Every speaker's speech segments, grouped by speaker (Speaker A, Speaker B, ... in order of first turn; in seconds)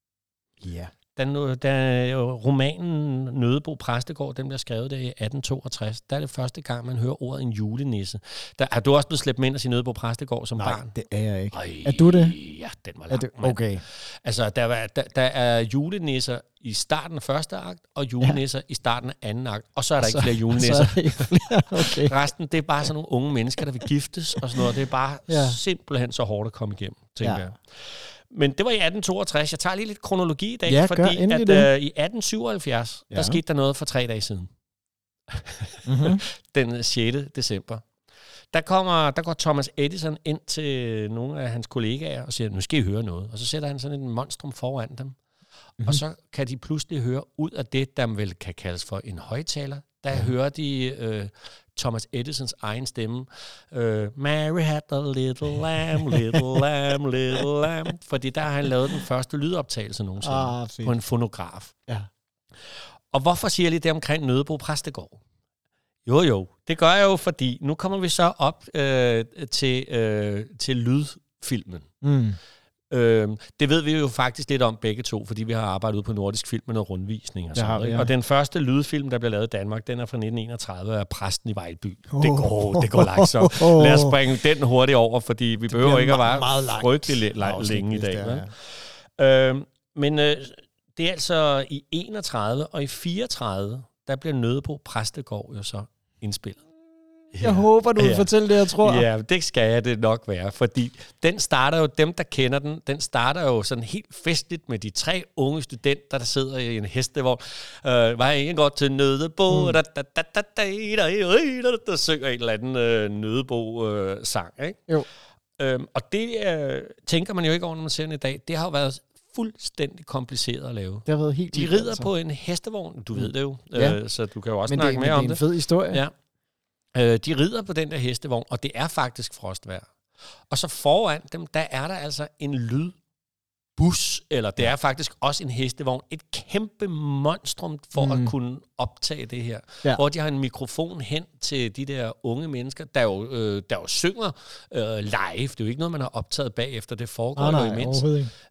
Speaker A: 0.6-0.9, 10.6-12.4, 13.1-13.8, 20.0-22.1, 25.3-25.6, 27.2-27.5, 30.7-31.7, 33.1-33.4, 35.8-36.2, 60.2-60.9, 72.0-72.4, 77.5-78.1, 82.1-84.2, 85.7-88.5, 97.4-99.1, 109.5-109.8, 121.1-122.1, 123.1-124.0, 124.7-126.0, 138.0-138.3, 147.3-148.3
Speaker B: 1.1-10.9, 11.5-27.8, 28.3-34.5, 35.3-37.8, 38.5-45.2, 45.8-61.7, 63.1-65.2, 66.0-71.9, 72.9-96.6, 97.3-114.8, 115.6-126.1, 126.9-129.9, 130.5-132.9, 133.8-148.1